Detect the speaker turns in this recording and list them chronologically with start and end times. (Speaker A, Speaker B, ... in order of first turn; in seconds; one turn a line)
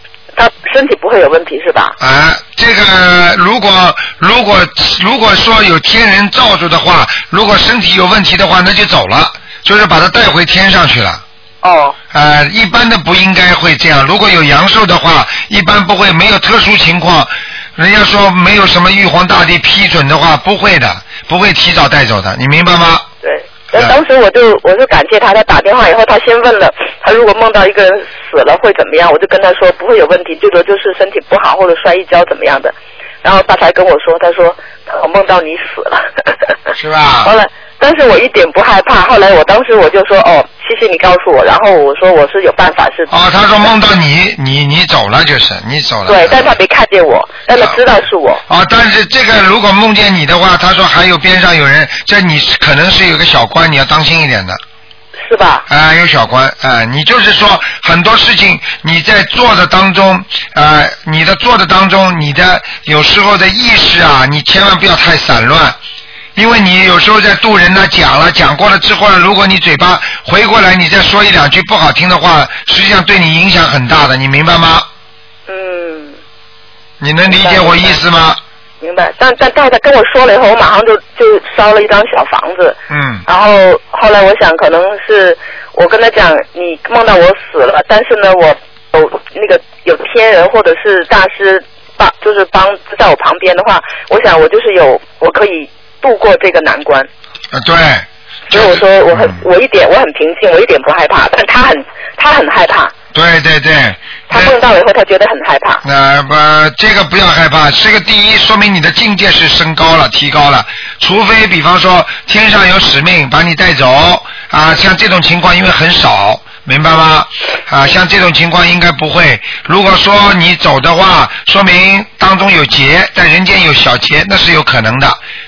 Speaker A: 0.3-2.0
Speaker B: 2.0-11.2
Speaker A: 11.6-12.0
Speaker B: 12.1-23.1
Speaker A: 23.2-36.3
Speaker B: 36.8-37.3
Speaker A: 37.2-43.1
Speaker B: 43.1-46.5
Speaker A: 46.1-48.4
Speaker B: 48.5-54.6
Speaker A: 55.2-55.6
Speaker B: 55.7-65.8
Speaker B: 66.4-74.9
Speaker A: 75.5-76.2
Speaker B: 77.0-78.4
Speaker A: 77.3-78.0
Speaker A: 78.8-97.1
Speaker B: 82.9-83.2
Speaker B: 97.5-99.4
Speaker A: 98.5-102.9
Speaker B: 103.1-104.5
Speaker A: 104.3-105.8
Speaker B: 105.8-125.2